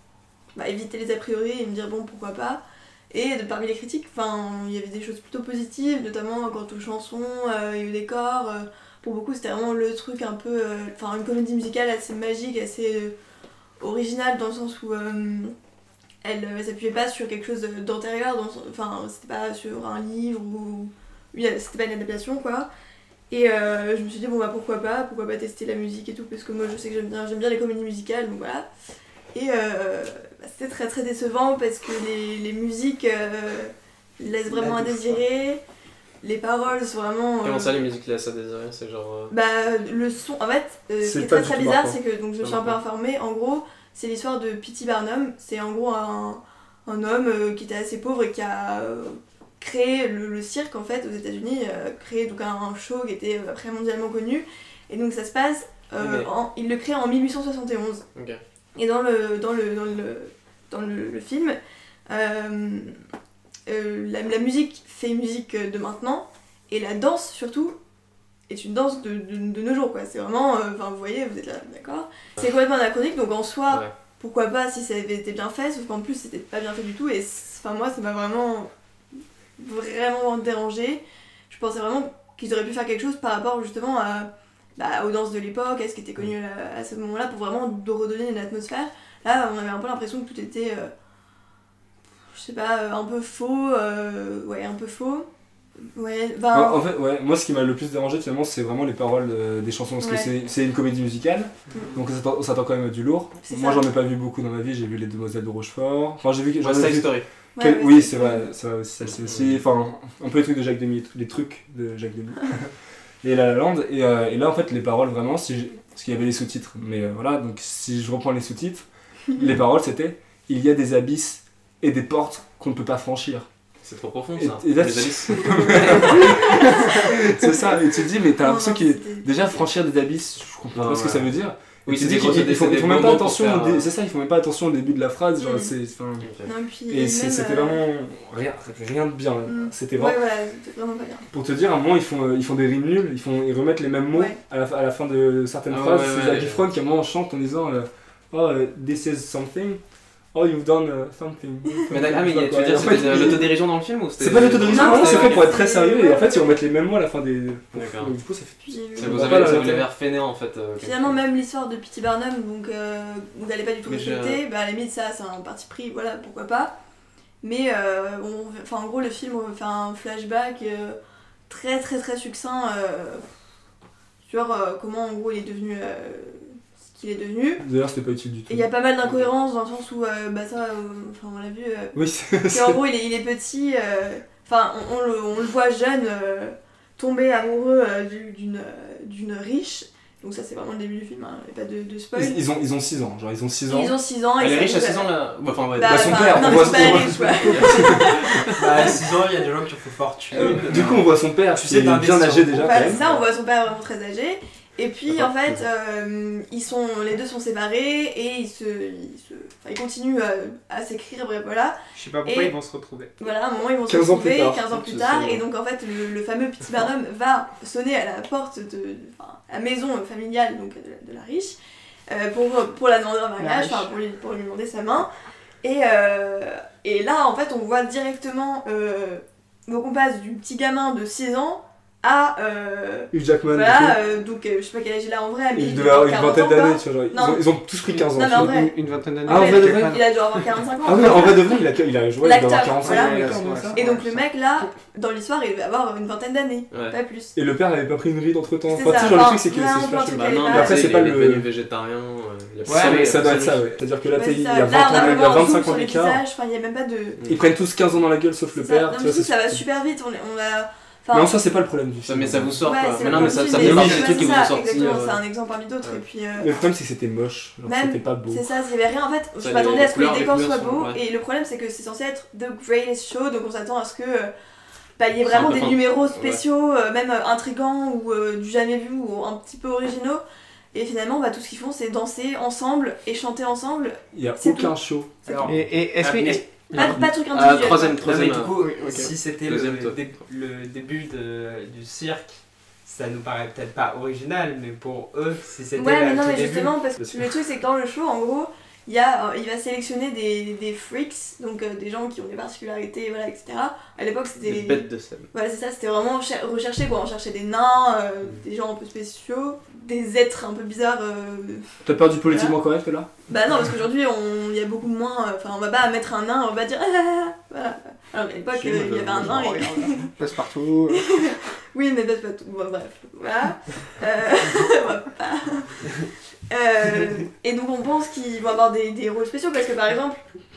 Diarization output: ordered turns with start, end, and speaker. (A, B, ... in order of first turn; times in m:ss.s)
0:00.5-0:13.1 A
0:13.8-0:15.5 A
0:16.2-0:22.7 A
0:23.3-0:28.7 A
0:29.3-0:35.6 A
0:34.5-0:35.2 B
0:36.2-0:37.8 A
0:37.4-0:39.3 C
0:39.3-0:58.0 A
0:41.0-0:42.0 D
0:42.4-0:42.8 C
0:56.0-0:56.3 C
0:58.1-0:58.4 C
0:58.8-1:01.6 A
1:02.1-1:03.0 A
1:03.7-1:07.8 A
1:08.5-1:18.7 A
1:19.6-1:30.9 A
1:32.3-1:35.3 A
1:35.8-1:36.8 A
1:36.5-1:52.7 D
1:40.0-1:40.3 A
1:43.4-1:43.9 A
1:46.6-1:47.2 C
1:47.6-1:48.5 A
1:49.2-1:49.6 C
1:53.2-2:03.5 D
2:03.8-2:06.5 C
2:04.4-2:16.3 D
2:05.7-2:07.4 A
2:08.4-2:09.3 A
2:10.7-2:11.3 C
2:11.8-2:13.9 C
2:15.4-2:15.7 A
2:16.2-2:16.5 C
2:16.4-2:17.8 A
2:16.9-2:20.2 D
2:19.5-2:21.3 A
2:21.3-2:29.8 D
2:24.1-2:24.4 A
2:25.7-2:26.6 C
2:30.3-2:33.5 D
2:31.9-2:35.6 C
2:34.2-2:39.9 D
2:34.7-2:36.6 A
2:37.7-2:38.1 C
2:38.7-2:39.6 A
2:39.0-2:41.2 C
2:40.8-2:46.8 A
2:43.8-2:44.4 C
2:47.4-2:51.0 A
2:51.5-2:53.3 A
2:54.2-2:57.6 A
2:57.6-2:58.6 D
2:58.5-3:02.0 A
3:01.9-3:02.8 D
3:02.5-3:12.4 A
3:12.1-3:14.0 D
3:13.7-3:15.1 A
3:14.4-3:18.9 C
3:15.7-3:18.6 A
3:15.8-3:18.4 D
3:18.5-3:23.1 B
3:20.3-3:20.7 A
3:20.4-3:23.0 D
3:22.6-3:32.5 A
3:31.9-3:33.2 B
3:33.2-3:41.6 A
3:33.9-3:35.4 D
3:42.1-3:45.1 A
3:43.4-3:43.9 E
3:45.6-3:57.4 A
3:53.1-3:54.0 D
3:55.5-3:58.7 D
3:57.9-4:00.4 E
3:58.1-3:58.7 A
3:59.2-4:00.0 D
3:59.2-4:01.6 A
4:00.8-4:03.8 D
4:02.2-4:07.3 A
4:02.8-4:04.2 E
4:07.3-4:11.5 D
4:08.7-4:10.9 A
4:10.1-4:13.6 C
4:12.6-4:13.3 B
4:12.7-4:16.2 D
4:14.1-4:17.2 A
4:17.3-4:19.6 D
4:18.6-4:21.3 A
4:21.1-4:24.1 D
4:22.0-4:25.2 C
4:22.6-4:26.5 A
4:23.8-4:24.1 E
4:26.4-4:28.4 D
4:27.6-4:34.3 A
4:29.4-4:31.0 C
4:35.0-4:40.2 A
4:35.2-4:36.4 C
4:40.7-4:44.7 A
4:44.1-4:45.1 D
4:45.2-4:46.4 B
4:45.4-4:47.0 E
4:46.7-4:48.0 A
4:46.8-4:47.1 D
4:46.8-4:50.0 C
4:48.0-4:56.8 B
4:48.6-4:49.1 E
4:55.8-5:12.6 A
4:57.0-4:57.3 D
5:04.4-5:05.3 C
5:11.8-5:13.1 D
5:13.3-5:20.1 A
5:18.6-5:21.3 E
5:18.7-5:19.3 C
5:20.9-5:25.9 A
5:26.5-5:30.2 A